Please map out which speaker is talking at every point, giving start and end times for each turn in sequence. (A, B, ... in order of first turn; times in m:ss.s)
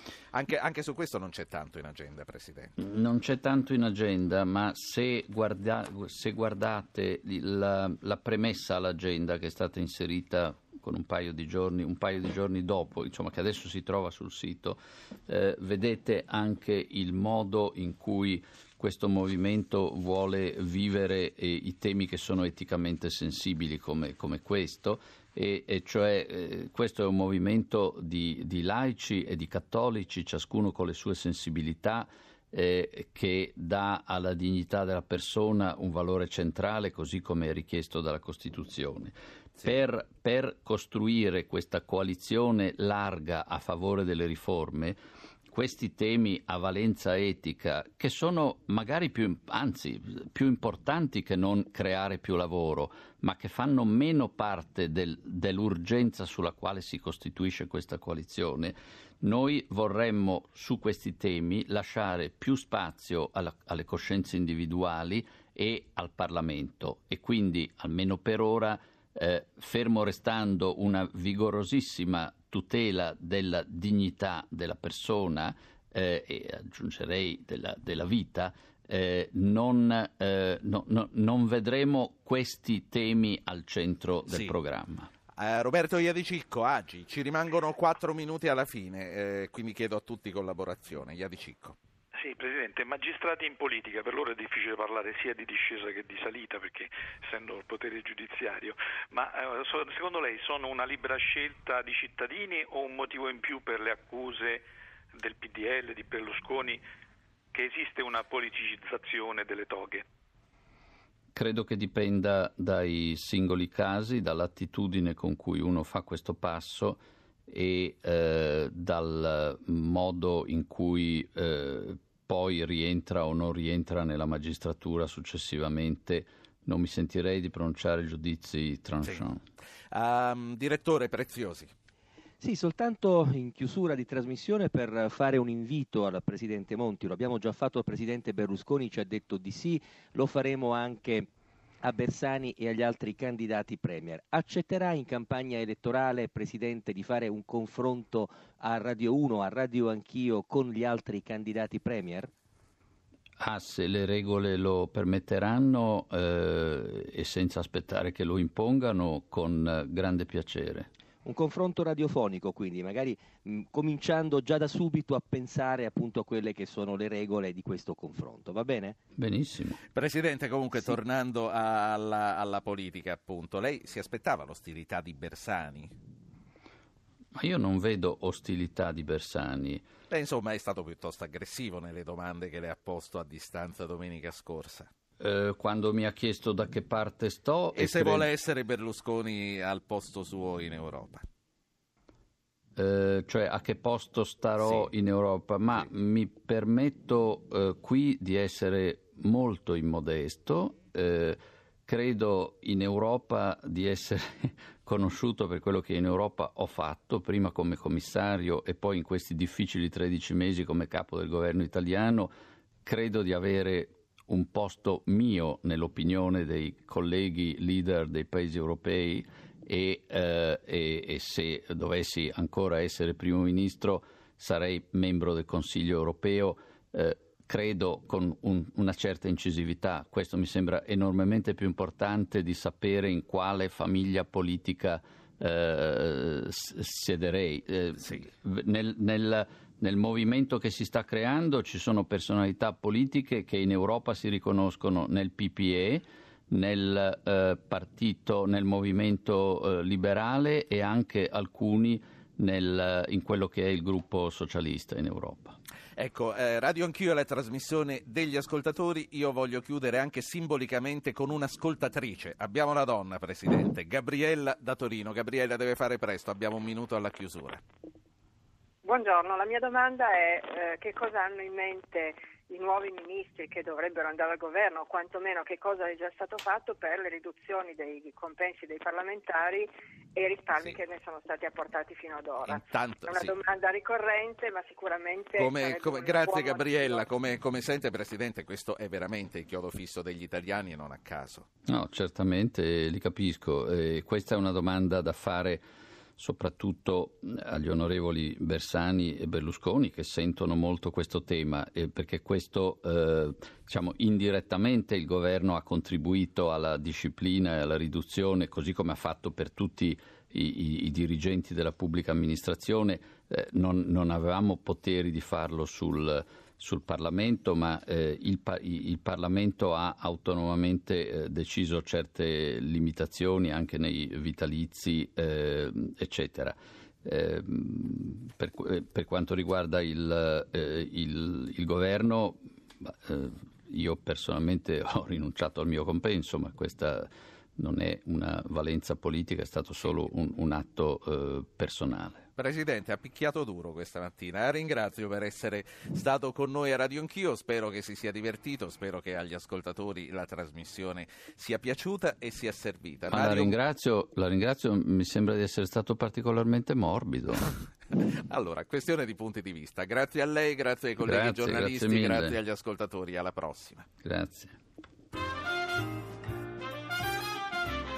0:00.3-0:02.7 A
0:02.8-0:45.0 B
0:45.5-1:25.1 B
1:24.3-1:24.5 A
1:25.4-1:31.8 A
1:32.1-1:46.8 C
1:47.5-1:50.0 C
1:51.3-2:09.4 B
2:09.9-2:11.7 A
2:12.4-2:21.3 D
2:21.8-2:32.3 D
2:33.4-2:40.9 B
2:41.2-2:49.0 D
2:49.2-2:49.8 B
2:49.9-2:55.9 A
2:57.3-2:59.8 B
3:00.1-3:04.9 A
3:05.2-3:08.3 B
3:07.8-3:11.2 A
3:12.8-3:32.3 B
3:14.6-3:14.9 A
3:32.8-4:15.6 B
3:58.0-3:58.3 A
4:16.0-4:27.6 A
4:28.8-4:47.1 E
4:42.4-4:43.3 A
4:45.3-4:51.5 A
4:51.6-4:55.6 B
4:56.2-5:42.2 B
5:42.4-5:53.5 A
5:53.1-5:57.5 B
5:58.0-6:03.9 A
6:01.0-6:02.4 B
6:04.0-6:04.6 B